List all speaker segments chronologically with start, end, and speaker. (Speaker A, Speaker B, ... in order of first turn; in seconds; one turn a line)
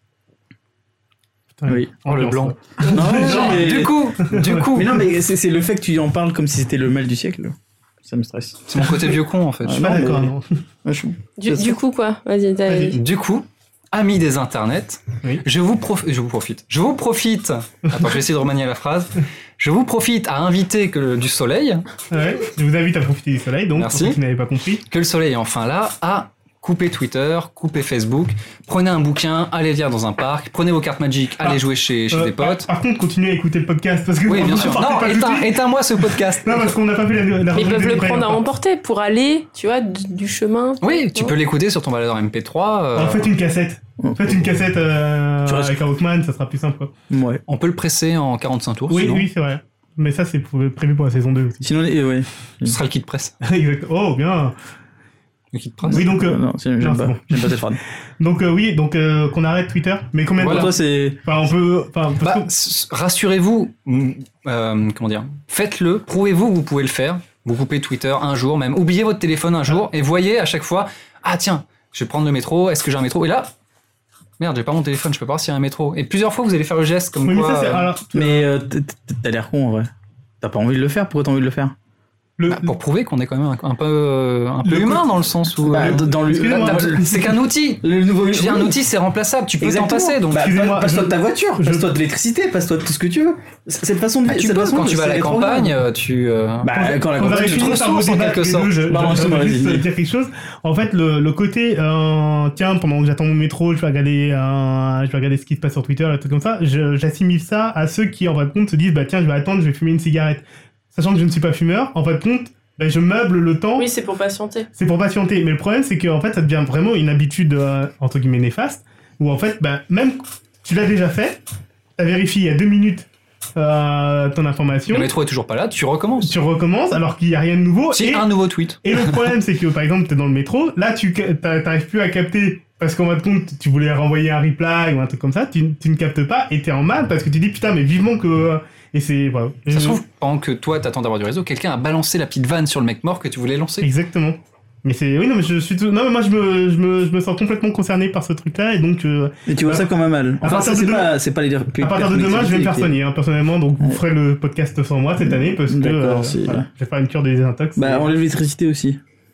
Speaker A: 1.6-4.6
Speaker B: 2.1-5.0
Speaker C: 2.8-4.0
Speaker C: 4.7-8.9
Speaker B: 8.7-10.0
Speaker C: 9.6-10.3
Speaker A: 9.8-10.5
Speaker C: 10.8-11.8
Speaker D: 11.4-13.0
Speaker A: 12.7-13.0
Speaker B: 12.9-21.9
Speaker A: 22.1-24.8
Speaker B: 23.8-24.2
Speaker B: 24.9-32.7
Speaker A: 32.1-35.6
Speaker B: 34.3-36.8
Speaker A: 36.1-38.5
Speaker D: 37.5-41.4
Speaker B: 40.8-43.3
Speaker A: 43.0-46.9
Speaker C: 44.0-44.6
Speaker C: 45.5-45.8
Speaker C: 47.1-47.4
Speaker B: 47.5-49.3
Speaker A: 48.9-51.7
Speaker C: 51.6-52.8
Speaker B: 52.6-53.3
Speaker A: 53.4-54.5
Speaker B: 55.5-56.1
Speaker C: 55.9-57.8
Speaker A: 55.9-57.6
Speaker A: 58.2-62.5
Speaker B: 60.4-60.7
Speaker C: 60.4-61.2
Speaker B: 62.2-73.5
Speaker B: 74.4-77.9
Speaker A: 77.3-78.5
Speaker C: 78.1-79.9
Speaker C: 80.4-81.8
Speaker A: 82.4-82.7
Speaker B: 82.5-90.5
Speaker A: 84.7-85.0
Speaker C: 85.7-87.3
Speaker A: 85.7-87.3
Speaker C: 87.8-88.8
Speaker C: 89.6-95.8
Speaker A: 90.3-91.8
Speaker B: 94.3-99.3
Speaker C: 96.6-97.9
Speaker A: 96.7-113.9
Speaker C: 98.9-99.9
Speaker D: 113.8-114.7
Speaker A: 114.8-121.4
Speaker A: 122.0-125.1
Speaker B: 124.9-126.3
Speaker A: 126.2-128.3
Speaker B: 127.9-129.3
Speaker A: 128.8-140.0
Speaker B: 139.7-143.9
Speaker A: 143.8-149.9
Speaker C: 149.5-152.9
Speaker A: 150.4-151.1
Speaker A: 151.8-158.1
Speaker C: 155.2-156.7
Speaker C: 157.8-159.0